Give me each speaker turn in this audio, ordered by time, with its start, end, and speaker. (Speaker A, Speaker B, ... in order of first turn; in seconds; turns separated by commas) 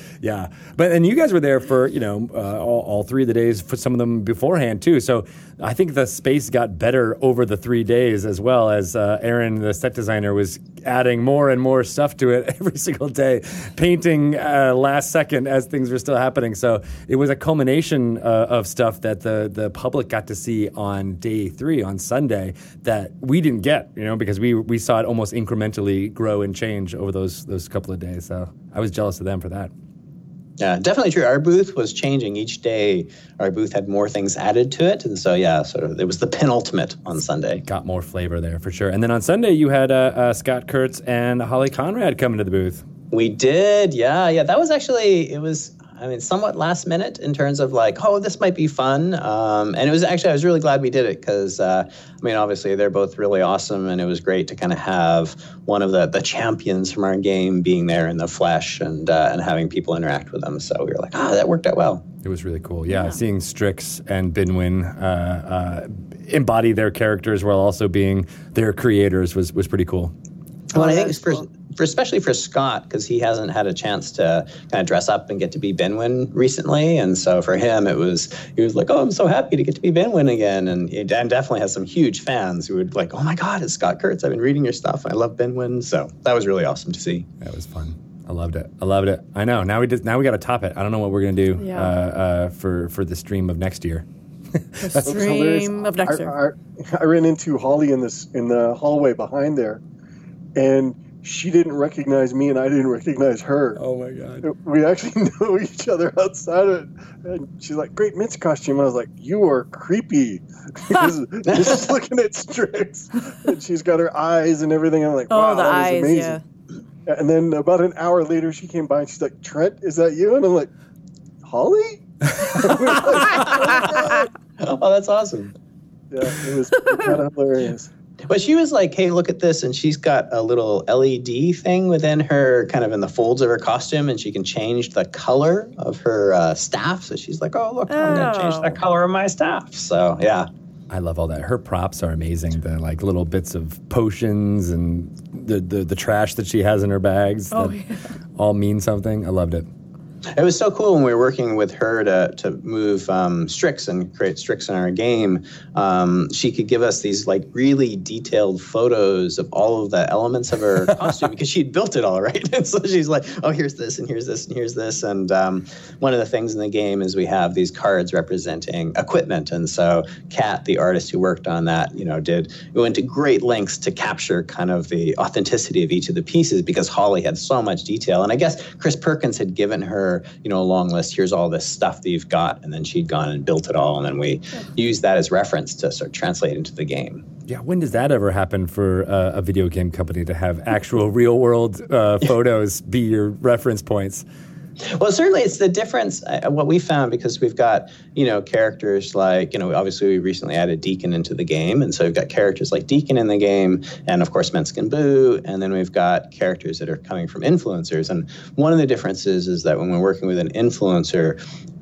Speaker A: 0.2-29.7, Speaker B: 30.6-37.6, Speaker A: 37.7-42.8, Speaker B: 43.1-62.0, Speaker A: 62.2-70.1, Speaker C: 62.9-63.2, Speaker B: 70.7-87.3, Speaker C: 70.7-71.2, Speaker A: 87.4-94.0, Speaker C: 91.6-91.9, Speaker A: 94.7-95.1, Speaker C: 94.8-96.3, Speaker D: 95.0-99.8, Speaker D: 100.5-103.8, Speaker A: 103.8-104.5, Speaker D: 104.4-116.4, Speaker B: 111.5-111.8, Speaker C: 115.3-116.4, Speaker D: 117.0-120.7, Speaker D: 121.4-124.3, Speaker B: 124.6-125.5, Speaker D: 126.1-127.9, Speaker B: 128.3-140.5, Speaker C: 137.9-138.8, Speaker A: 140.9-147.7, Speaker C: 147.5-148.1, Speaker A: 148.3-149.7, Speaker B: 150.3-187.2, Speaker A: 187.5-194.2, Speaker B: 194.8-211.4